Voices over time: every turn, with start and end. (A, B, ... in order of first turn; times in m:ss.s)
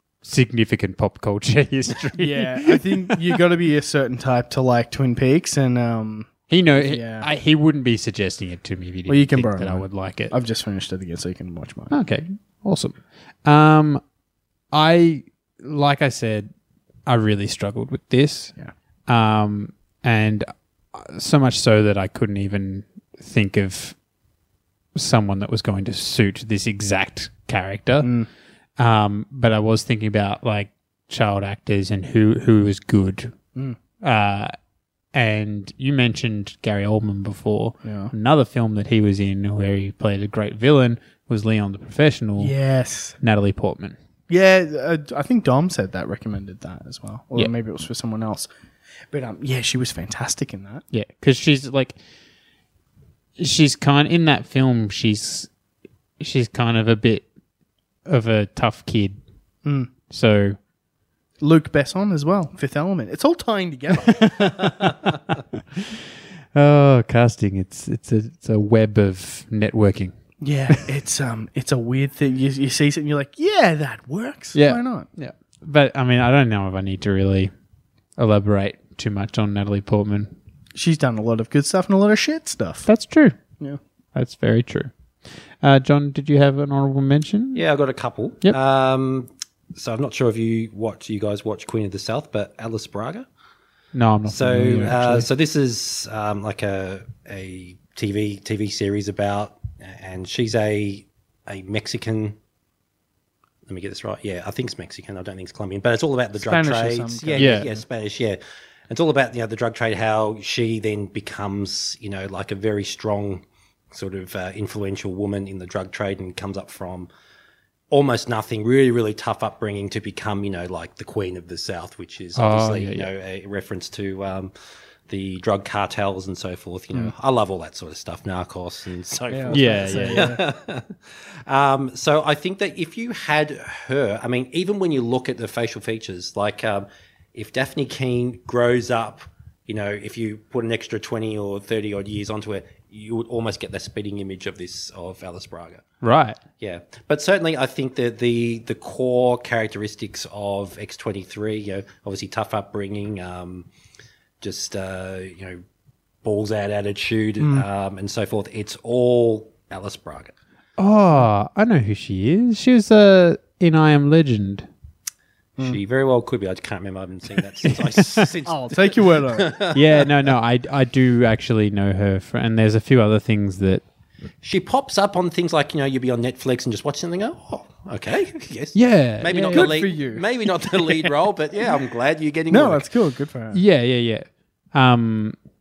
0:00.2-0:03.3 A
0:02.2-0:07.3 B
0:06.5-0:10.3 A
0:09.1-0:11.9 B
0:11.9-0:14.0 A
0:14.7-0:16.5 A
0:17.0-0:18.6 A
0:19.1-0:23.9 A
0:24.9-0:28.1 A
0:28.0-0:28.3 B
0:28.8-0:33.3 A
0:34.0-0:34.5 A
0:35.1-0:42.5 A
0:37.8-0:38.1 B
0:42.4-0:43.2 B
0:43.2-0:44.0 A
0:44.3-0:48.5 B
0:49.1-0:50.8 B
0:50.9-0:52.0 A
0:53.4-0:55.5 A
0:56.2-0:57.3 A
0:58.0-0:59.2 A
0:59.6-0:59.9 B
1:00.1-1:00.6 A
1:01.4-1:05.0 B
1:04.1-1:05.1 A
1:06.5-1:10.1 A
1:10.4-1:15.1 B
1:14.5-1:17.5 A
1:18.2-1:20.3 A
1:20.7-1:22.9 B
1:22.8-1:23.4 A
1:24.1-1:24.9 A
1:25.6-1:27.6 A
1:27.5-1:33.3 C
1:33.9-1:35.2 A
1:34.3-1:42.4 C
1:43.7-1:57.1 C
1:46.4-1:47.7 B
1:47.4-1:47.7 A
1:57.9-2:04.5 C
2:02.4-2:03.1 A
2:05.1-2:25.8 C
2:09.3-2:10.4 B
2:09.5-2:10.3 A
2:26.0-2:26.4 A
2:26.6-2:33.7 C
2:34.4-2:35.6 C
2:36.2-2:40.3 C
2:37.4-2:37.6 B
2:40.8-2:44.7 A
2:45.6-2:50.3 C
2:47.7-2:48.3 A
2:48.4-2:49.6 B
2:49.7-2:53.8 A
2:54.4-3:02.8 C
2:58.7-2:59.8 A
2:59.3-3:01.1 B
3:02.5-3:03.6 B
3:03.5-3:05.4 A